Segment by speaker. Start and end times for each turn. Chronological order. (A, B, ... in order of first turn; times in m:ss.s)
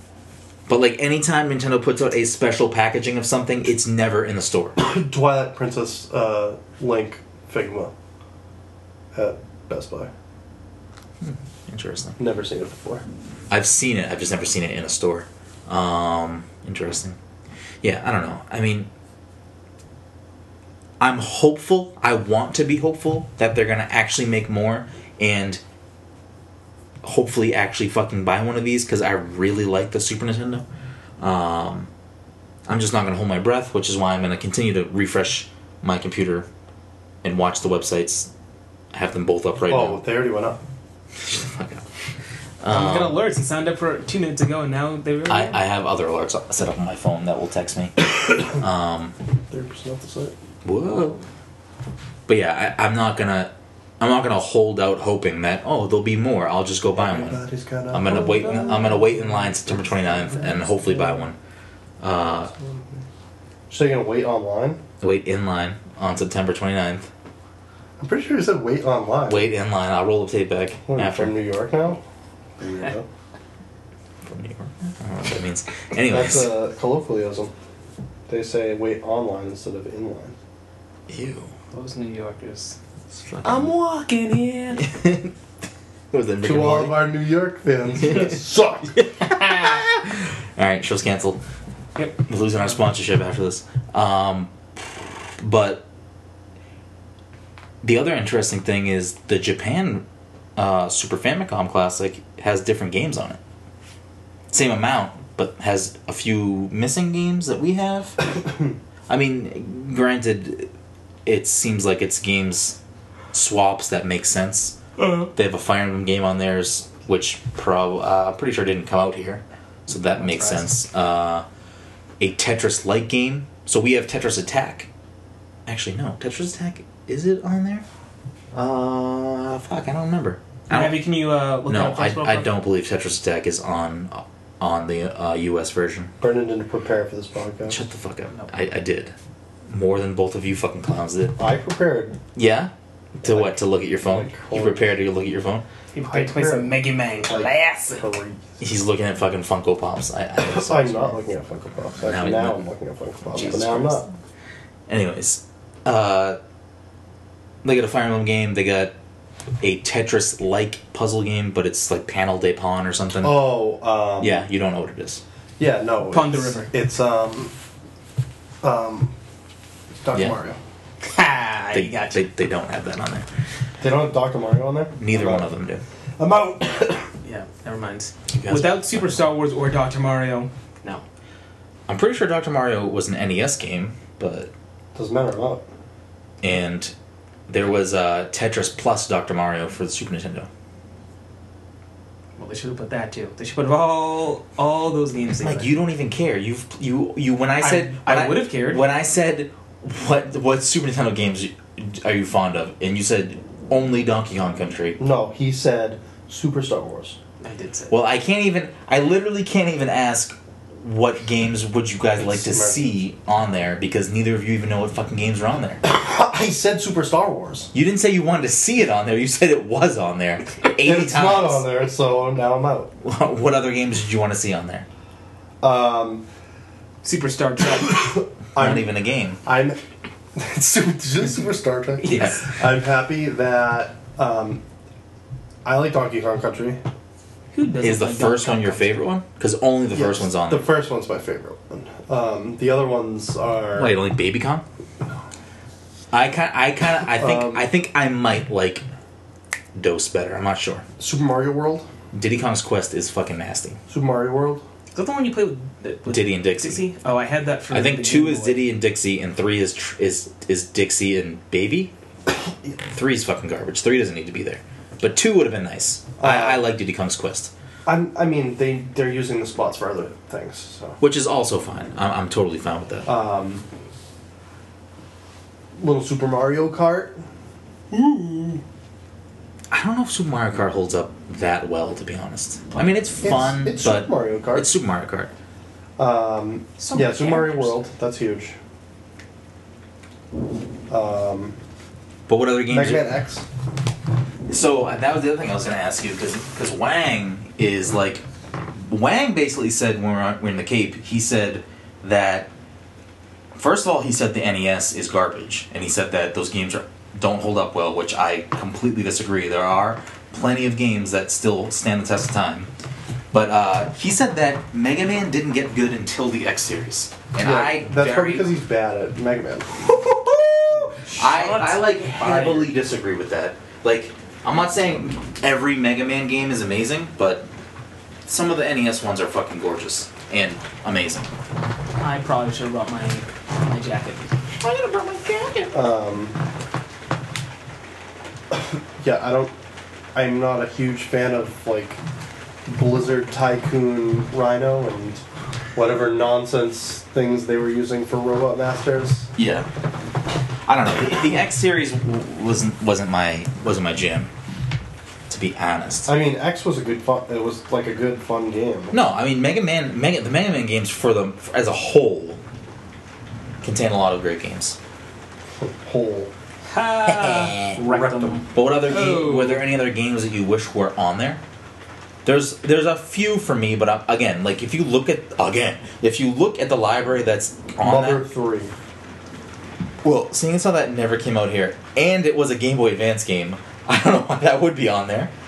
0:00.7-0:04.8 A
0:04.8-0:07.9 B
0:09.1-0:10.1 B
0:11.2-0:12.2 A
0:12.2-0:13.0 B
0:13.5-0:17.2 A
0:17.8-0:18.9 A
0:21.0-0:25.6 A
0:27.0-0:30.6 A
0:31.2-0:31.9 A
0:32.7-0:36.5 A
0:37.2-0:38.3 A
0:38.9-0:40.0 A
0:39.7-0:40.6 B
0:41.2-0:41.8 A
0:42.6-0:43.2 A
0:42.7-0:45.6 C
0:45.3-0:49.1 A
0:49.5-0:50.4 B
0:50.6-0:51.2 A
0:52.3-1:01.4 A
0:56.9-1:01.2 B
1:02.0-1:02.5 A
1:02.5-1:03.0 B
1:03.7-1:04.8 B
1:05.0-1:07.1 A
1:08.0-1:09.5 B
1:09.3-1:11.4 A
1:10.9-1:12.0 B
1:12.6-1:13.1 B
1:14.2-1:16.5 A
1:16.1-1:17.5 B
1:18.3-1:20.4 B
1:21.1-1:21.5 A
1:21.7-1:22.8 C
1:23.1-1:23.7 A
1:23.4-1:24.9 C
1:24.8-1:25.3 A
1:26.1-1:27.0 A
1:26.4-1:28.9 B
1:28.1-1:28.3 A
1:28.9-1:31.4 A
1:32.3-1:35.9 A
1:37.8-1:40.0 A
1:40.6-1:43.4 A
1:44.5-1:48.2 A
1:49.1-1:50.7 A
1:51.3-1:52.8 A
1:53.3-2:01.4 A
2:00.1-2:00.7 C
2:02.2-2:04.9 A
2:05.7-2:07.8 A
2:08.5-2:11.0 A
2:10.7-2:12.5 C
2:11.6-2:16.1 A
2:16.2-2:17.8 B
2:17.7-2:19.1 A
2:19.7-2:21.4 A
2:21.4-2:22.2 B
2:22.4-2:22.7 A
2:23.2-2:24.9 B
2:23.2-2:25.6 A
2:25.9-2:28.1 C
2:26.1-2:28.6 B
2:28.6-2:31.2 A
2:30.4-2:34.0 B
2:32.0-2:32.6 A
2:33.4-2:34.0 A
2:34.9-2:36.4 A
2:37.6-2:39.0 A
2:39.6-2:43.5 A
2:43.2-2:44.4 B
2:44.2-2:45.2 A
2:45.6-2:47.5 B
2:46.1-2:46.7 C
2:48.6-2:49.1 B
2:50.0-2:50.6 B
2:51.0-2:52.2 C
2:51.7-2:53.3 A
2:53.8-2:55.5 B
2:55.0-2:55.8 A
2:56.2-2:57.1 B
2:57.2-3:01.0 C
2:58.3-2:59.2 A
3:01.9-3:04.5 A
3:05.0-3:05.7 B
3:06.4-3:06.9 A
3:07.5-3:10.5 A
3:12.4-3:15.7 C
3:15.4-3:25.0 A
3:17.6-3:18.8 C
3:25.0-3:27.2 B
3:27.4-3:27.9 C
3:27.9-3:35.8 A
3:32.2-3:32.8 B
3:35.8-3:37.7 B
3:37.7-3:41.6 A
3:40.8-3:42.9 B
3:43.0-3:44.9 A
3:45.6-3:46.3 B
3:47.0-3:48.2 C
3:47.9-3:48.9 B
3:48.6-3:49.4 A
3:49.4-3:49.8 B
3:50.3-3:54.6 B
3:52.0-3:52.5 C
3:52.1-3:52.4 A
3:55.6-3:56.8 B
3:57.5-3:59.0 C
3:57.8-4:00.7 A
3:59.9-4:04.0 B
4:03.7-4:04.6 A
4:06.1-4:08.8 A
4:07.1-4:07.7 B
4:09.7-4:10.8 A
4:11.0-4:11.9 B
4:12.1-4:13.8 A
4:13.9-4:14.6 B
4:14.9-4:18.6 C
4:16.1-4:16.8 A
4:17.7-4:21.9 A
4:22.9-4:27.5 A
4:26.2-4:26.6 B
4:27.9-4:31.0 B
4:31.0-4:33.1 A
4:33.0-4:33.6 B
4:35.8-4:37.2 B
4:37.9-4:38.6 B
4:39.7-4:45.3 A
4:43.2-4:44.7 B
4:46.0-4:48.6 B
4:46.8-4:47.9 C
4:50.9-4:51.6 B
4:52.3-4:53.1 A
4:52.7-4:53.4 B
4:54.5-4:58.2 A
4:58.8-5:02.5 A
5:03.6-5:12.7 A
5:13.3-5:18.5 A
5:17.4-5:19.7 B
5:19.8-5:27.5 A
5:20.7-5:22.7 C
5:28.3-5:31.3 A
5:32.0-5:34.3 C
5:35.7-5:36.4 B
5:38.5-5:39.5 B
5:40.1-5:42.0 B
5:42.7-5:45.2 B
5:45.7-5:49.3 B
5:49.4-5:49.7 A
5:50.7-5:54.3 A
5:55.3-5:56.1 A
5:56.1-5:59.0 B
5:58.9-6:02.4 A
6:03.6-6:04.8 A
6:05.6-6:06.3 B
6:06.7-6:09.7 C
6:07.0-6:07.8 A
6:07.8-6:08.4 B
6:08.5-6:11.4 A
6:12.2-6:18.2 A
6:17.8-6:18.7 B
6:20.0-6:25.3 A